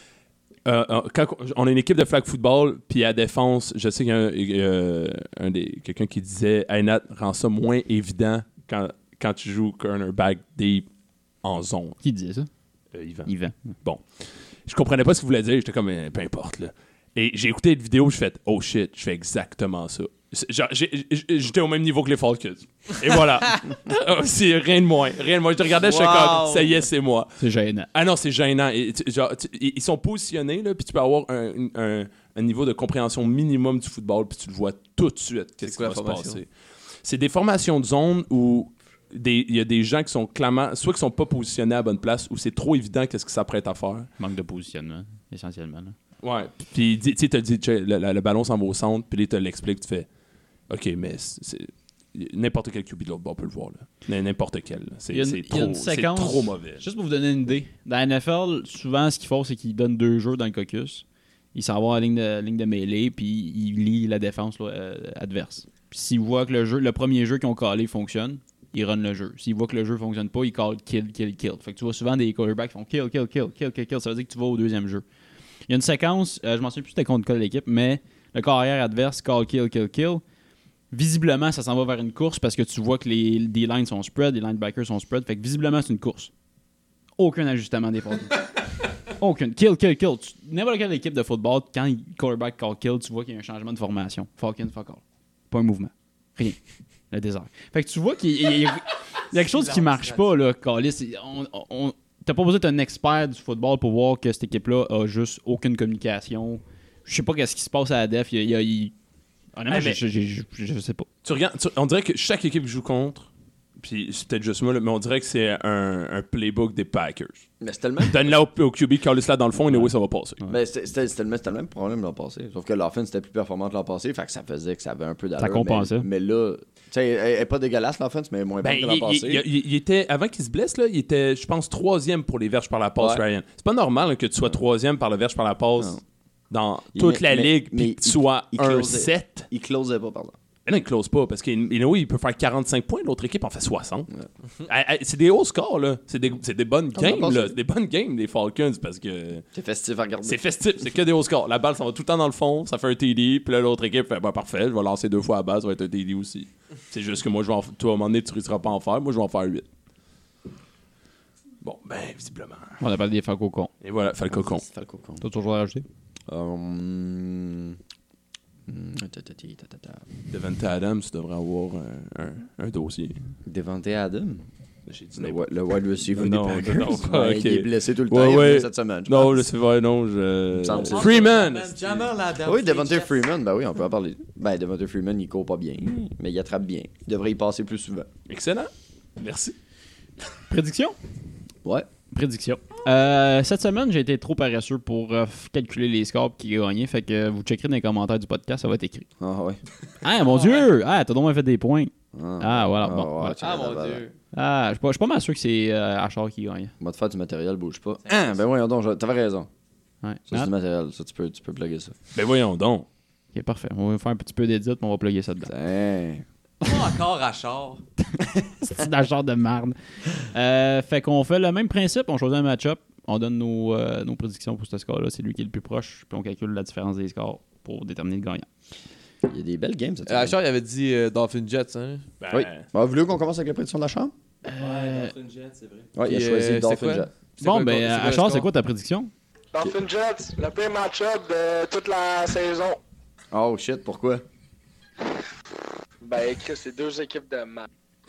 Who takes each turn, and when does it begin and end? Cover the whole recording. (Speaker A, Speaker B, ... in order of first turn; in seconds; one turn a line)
Speaker A: 0.7-10.9
Speaker A: 11.4-12.0
Speaker B: 12.0-12.5
Speaker A: 12.9-13.3
Speaker B: 13.2-13.6
Speaker A: 14.6-27.4
Speaker C: 25.8-26.7
Speaker B: 27.4-27.9
Speaker A: 27.9-36.5
Speaker C: 35.6-36.4
Speaker A: 37.0-44.1
Speaker B: 44.2-45.9
Speaker A: 46.2-50.1
Speaker A: 50.7-56.8
Speaker B: 55.1-75.0
Speaker B: 75.7-80.2
Speaker B: 80.9-86.3
Speaker B: 87.2-88.4
Speaker B: 89.0-96.6
Speaker B: 97.1-108.9
Speaker D: 99.3-100.3
Speaker B: 109.5-111.1
Speaker A: 109.7-110.0
Speaker A: 111.2-117.5
Speaker E: 117.6-118.3
Speaker A: 118.0-120.4
Speaker B: 119.7-120.5
Speaker E: 120.5-129.4
Speaker B: 125.4-126.1
Speaker A: 128.6-139.5
Speaker E: 133.0-133.2
Speaker E: 136.9-140.3
Speaker A: 140.7-144.1
Speaker A: 144.6-149.4
Speaker E: 146.9-147.6
Speaker E: 149.5-150.4
Speaker A: 150.2-159.6
Speaker A: 161.6-162.8
Speaker B: 162.8-163.7
Speaker A: 163.8-164.6
Speaker E: 164.3-165.2
Speaker B: 165.2-165.8
Speaker E: 166.3-167.8
Speaker E: 168.7-170.1
Speaker A: 170.3-173.2
Speaker E: 173.4-174.4
Speaker A: 174.9-175.4
Speaker E: 175.2-179.5
Speaker A: 176.1-182.0
Speaker E: 180.5-181.3
Speaker D: 180.7-183.3
Speaker E: 182.4-188.1
Speaker A: 188.3-189.5
Speaker B: 190.5-190.9
Speaker B: 192.1-199.1
Speaker E: 199.2-199.6
Speaker B: 200.0-203.4
Speaker E: 202.1-204.1
Speaker C: 203.4-204.1
Speaker B: 204.3-206.7
Speaker E: 206.8-209.5
Speaker D: 208.0-208.4
Speaker B: 210.0-210.5
Speaker E: 210.3-212.0
Speaker A: 212.1-212.8
Speaker B: 213.3-215.5
Speaker E: 215.4-216.2
Speaker D: 216.6-217.8
Speaker B: 218.6-228.5
Speaker E: 229.2-230.4
Speaker C: 230.1-232.1
Speaker A: 232.2-232.7
Speaker E: 232.3-234.1
Speaker B: 234.4-235.1
Speaker D: 234.6-235.9
Speaker E: 235.9-237.1
Speaker C: 236.0-238.5
Speaker B: 237.4-239.1
Speaker F: 239.5-242.8
Speaker E: 243.3-244.2
Speaker F: 246.0-247.7